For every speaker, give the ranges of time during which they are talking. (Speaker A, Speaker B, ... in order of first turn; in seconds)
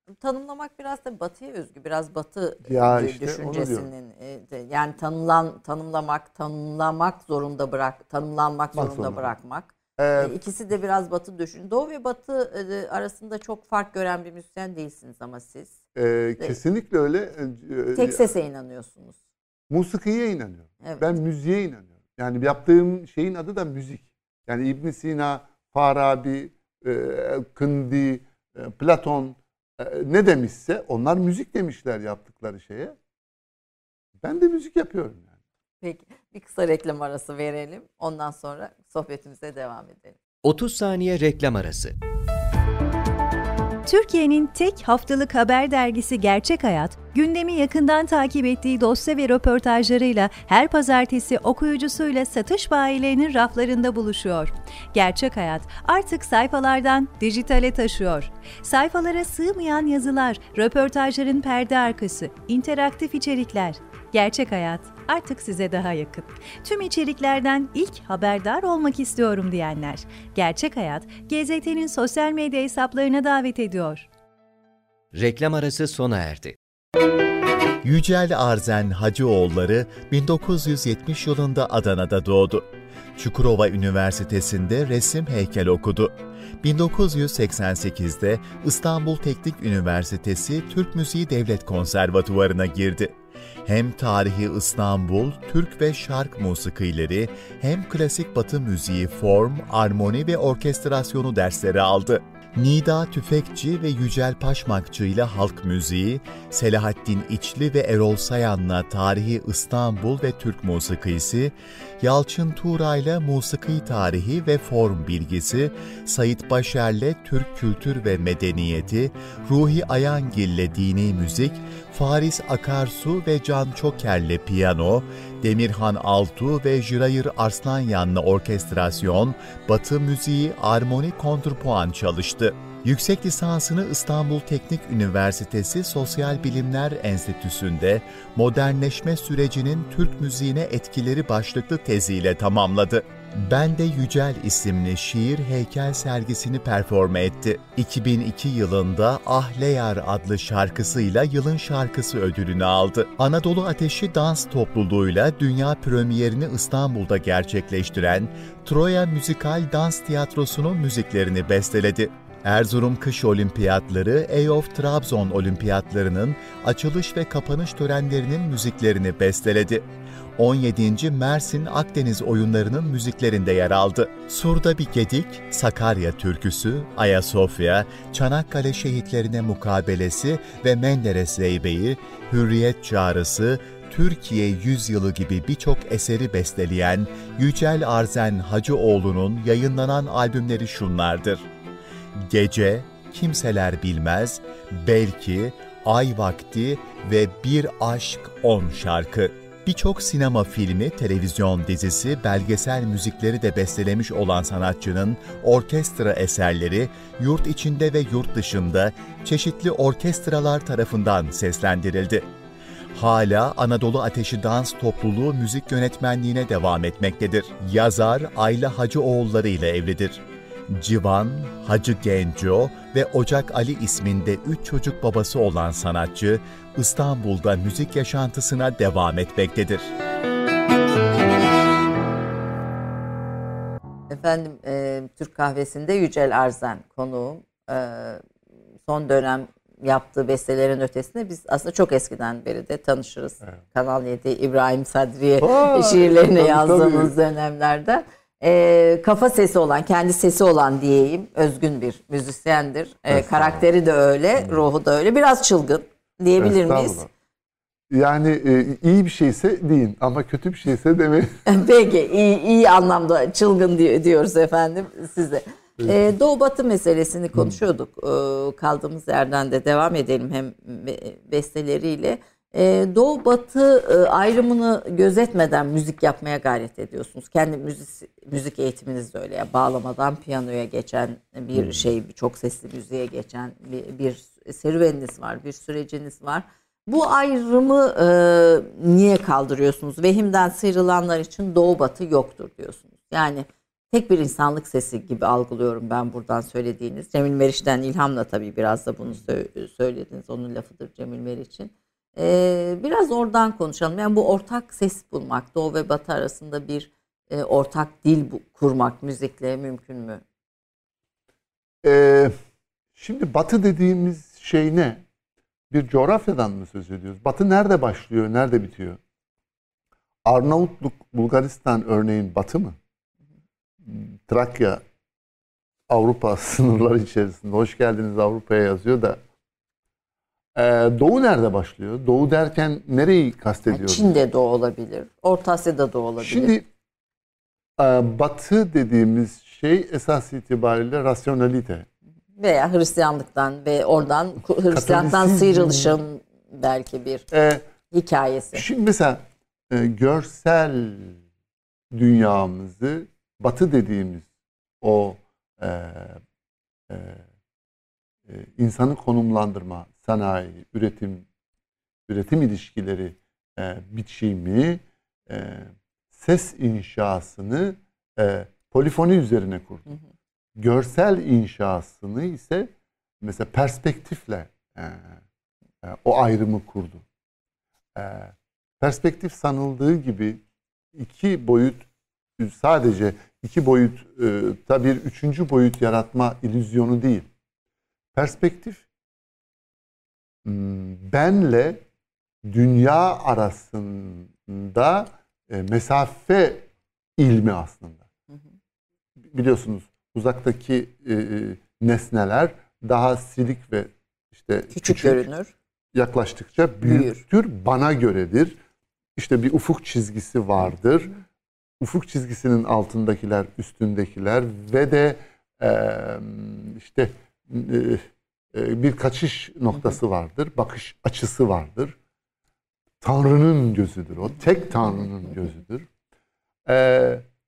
Speaker A: 0.2-15.8, 17.9-19.2, 20.8-21.1, 35.8-40.2, 234.1-238.2, 238.9-257.0, 261.5-310.2, 333.7-336.6, 342.4-347.3, 347.9-348.6, 404.7-405.5, 406.8-407.2
Speaker B: 2.6-3.9, 8.7-9.3, 10.0-10.4, 15.9-18.3, 19.7-33.0, 34.2-35.4, 245.4-247.1, 253.1-253.7, 254.4-254.6, 256.4-257.1, 257.9-261.3, 281.6-281.9, 311.8-312.3, 312.9-315.0, 315.7-319.0, 320.2-322.8, 323.8-324.8, 325.9-329.2, 330.6-334.1, 336.2-336.7, 337.8-341.9, 344.7-346.0, 347.3-347.6, 348.5-351.2, 351.9-354.3, 354.8-356.2, 356.9-357.2, 358.3-361.3, 362.1-370.0, 370.6-375.2, 375.8-377.1, 377.9-380.4, 380.9-381.9, 382.4-387.3, 388.1-388.9, 390.4-391.8, 392.4-398.1, 399.2-405.3, 405.9-408.6, 409.2-411.1, 411.8-422.0, 423.0-425.9, 426.7-427.2
Speaker C: 40.4-42.0, 75.1-76.6
Speaker D: 43.9-74.1
Speaker E: 77.8-169.9, 170.4-191.5, 192.2-212.3, 212.9-229.9